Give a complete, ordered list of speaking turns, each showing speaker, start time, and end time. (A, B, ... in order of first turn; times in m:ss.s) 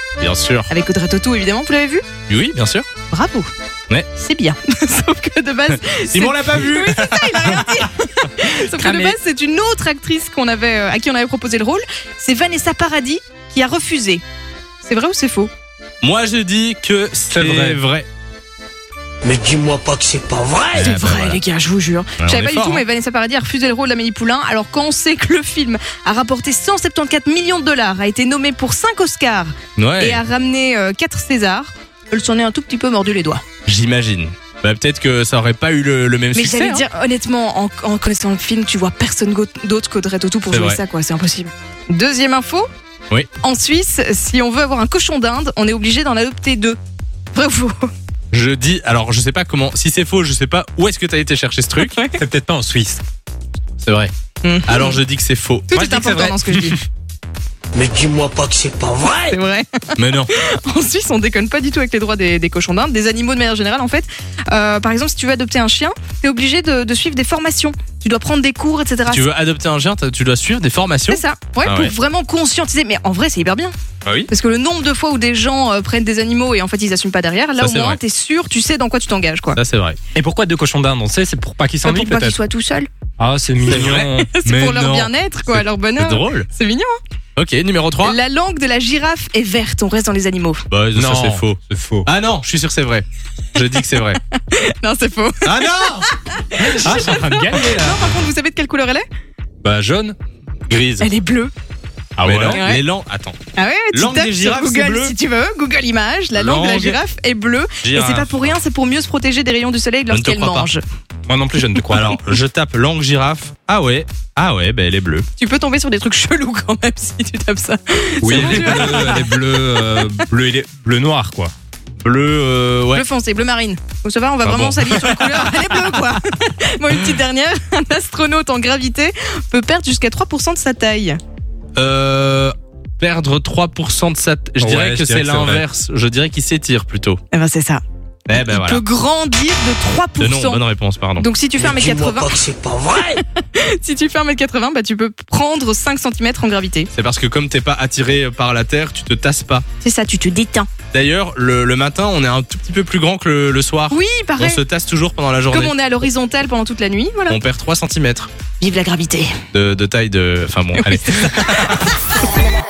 0:00.2-0:00.7 A
0:00.7-0:02.0 B
0:02.3-0:02.9 A
0:03.1-0:03.5 B
0:04.2-0:14.2 B
0:05.9-0:08.3 A
0:08.8-0:09.2 A
0:14.8-0:15.5 B
0:16.0-0:18.1 A
0:17.3-0:17.8 C
0:19.2-0:20.8 D
0:20.7-0:33.4 B
0:20.7-0:21.4 A
0:22.2-0:22.8 A
0:29.8-0:30.2 A
0:33.7-0:36.8 A
0:36.3-0:42.7 B
0:40.5-0:40.8 A
0:43.4-0:46.8 B
0:47.3-0:47.9 B
0:48.3-0:52.0 A
0:51.8-0:52.2 B
0:52.2-0:53.0 C
0:53.8-0:54.1 A
0:54.4-0:55.0 B
0:54.7-0:55.7 A
0:55.7-0:56.8 B
0:55.7-0:56.8 C
0:57.7-0:59.4 D
0:59.3-1:09.3 B
1:00.0-1:00.3 A
1:09.1-1:11.9 A
1:11.1-1:13.7 B
1:14.3-1:19.6 B
1:17.6-1:18.0 A
1:19.6-1:20.0 A
1:20.2-1:22.4 C
1:21.8-1:22.9 B
1:23.2-1:24.3 C
1:23.7-1:26.5 A
1:24.0-1:26.9 B
1:27.4-1:28.2 A
1:28.0-1:30.6 B
1:30.7-1:34.2 A
1:30.9-1:32.1 C
1:34.4-1:39.0 B
1:35.4-1:36.1 A
1:36.5-1:38.2 C
1:36.8-1:37.2 A
1:39.6-1:40.2 C
1:40.7-1:41.1 A
1:41.0-1:41.5 B
1:42.2-1:42.6 C
1:42.2-1:43.4 A
1:42.4-1:42.8 B
1:43.6-1:50.8 B
1:43.9-1:45.2 A
1:46.4-1:47.0 A
1:47.8-1:48.6 A
1:50.1-1:50.7 A
1:51.3-1:52.1 C
1:51.9-1:55.3 A
1:55.4-1:59.4 B
1:58.2-2:01.5 C
1:58.3-1:59.0 A
2:02.0-2:03.0 A
2:02.9-2:11.2 B
2:04.4-2:05.3 A
2:11.8-2:17.2 A
2:14.6-2:15.6 C
2:17.3-2:17.8 B
2:18.3-2:18.8 A
2:18.4-2:20.6 B
2:20.2-2:21.3 A
2:21.2-2:22.4 B
2:21.6-2:23.2 D
2:23.0-2:26.9 B
2:26.9-2:29.6 A
2:29.8-2:30.7 B
2:30.9-2:35.7 A
2:33.9-2:34.6 B
2:35.5-2:37.4 B
2:37.3-2:38.3 A
2:38.6-2:39.3 B
2:39.5-2:41.9 A
2:40.8-2:41.8 B